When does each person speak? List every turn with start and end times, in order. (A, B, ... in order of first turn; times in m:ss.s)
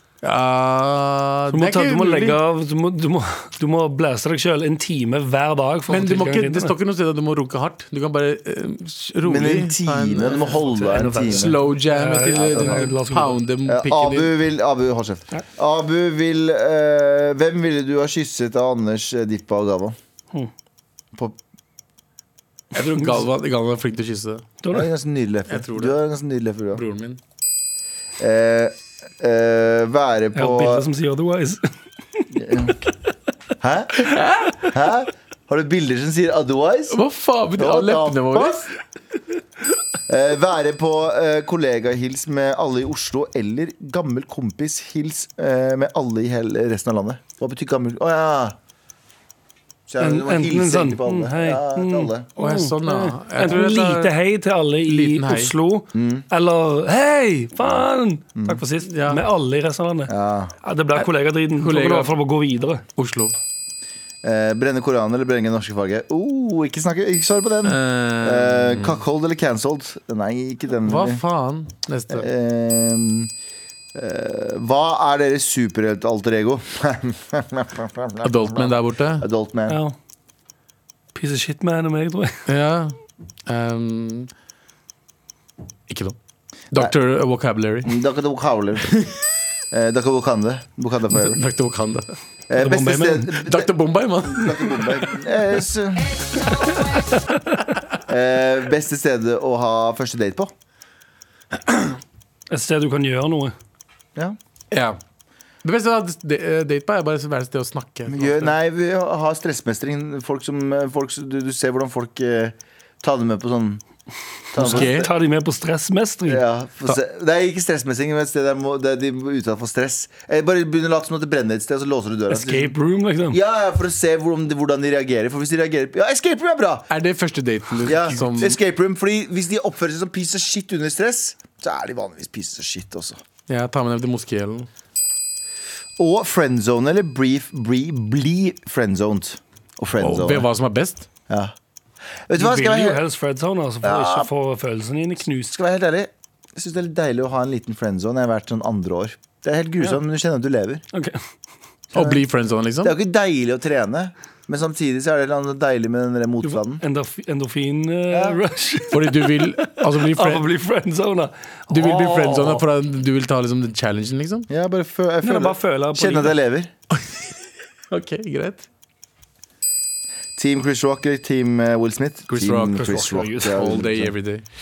0:00.2-0:02.4 A
0:01.5-0:06.7 B
0:05.9-0:14.3 A
0:09.2-0:11.6 C
0:10.4-0:13.4 B
0:12.4-0:12.8 C
0:13.6-0:20.0 C
0:22.7-0:24.5 A
0:22.8-0:23.2 B
0:24.7-0:26.8 C
0:25.5-0:26.0 A
0:26.7-0:27.2 A
0:28.2-0:30.8 C
0:30.3-0:32.3 B
0:32.3-0:32.8 C
0:33.6-0:34.2 C
0:34.1-0:34.6 A
0:34.7-0:37.0 C
0:36.9-0:38.7 A
0:37.6-0:38.7 C
0:40.1-0:48.6 C
0:49.9-0:52.3 C
0:50.0-1:02.8 B
0:52.4-0:54.1 A
0:54.8-0:55.5 A
0:55.9-0:56.2 C
0:58.8-0:59.2 A
1:00.1-1:00.5 C
1:01.6-1:02.1 A
1:03.0-1:03.3 A
1:04.2-1:11.2 C
1:07.6-1:09.0 A
1:10.8-1:12.3 A
1:12.1-1:13.3 C
1:13.9-1:19.8 C
1:18.2-1:19.3 A
1:19.7-1:19.9 B
1:21.1-1:22.4 B
1:22.5-1:24.3 A
1:25.9-1:26.2 A
1:26.7-1:28.0 A
1:27.8-1:28.9 C
1:29.7-1:31.4 C
1:31.2-1:32.1 A
1:32.5-1:33.7 C
1:32.6-1:33.3 B
1:33.3-1:35.0 A
1:34.2-1:36.2 C
1:36.6-1:37.4 B
1:38.1-1:40.5 C
1:42.5-1:43.5 B
1:44.7-1:45.0 A
1:45.6-1:48.5 A
1:48.1-1:53.8 C
1:54.5-1:55.1 C
1:54.6-1:56.4 B
1:54.6-1:55.1 A
1:56.2-2:02.7 C
2:02.3-2:03.4 B
2:03.3-2:06.8 C
2:06.9-2:08.6 A
2:07.8-2:13.2 C
2:13.5-2:14.7 A
2:16.0-2:20.5 C
2:20.0-2:21.1 A
2:21.3-2:21.5 C
2:22.3-2:23.0 C
2:22.4-2:25.5 B
2:23.8-2:24.3 C
2:25.5-2:30.8 C
2:30.9-2:31.2 B
2:31.9-2:32.9 A
2:31.9-2:32.2 C
2:32.8-2:36.8 C
2:36.4-2:42.0 B
2:38.1-2:38.4 C
2:38.9-2:40.4 A
2:41.7-2:44.5 A
2:41.8-2:42.6 C
2:44.5-2:46.7 C
2:45.2-2:46.4 B
2:46.9-2:47.3 A
2:47.9-2:48.7 A
2:50.4-2:54.1 C
2:52.3-2:54.4 A
2:52.8-2:53.6 B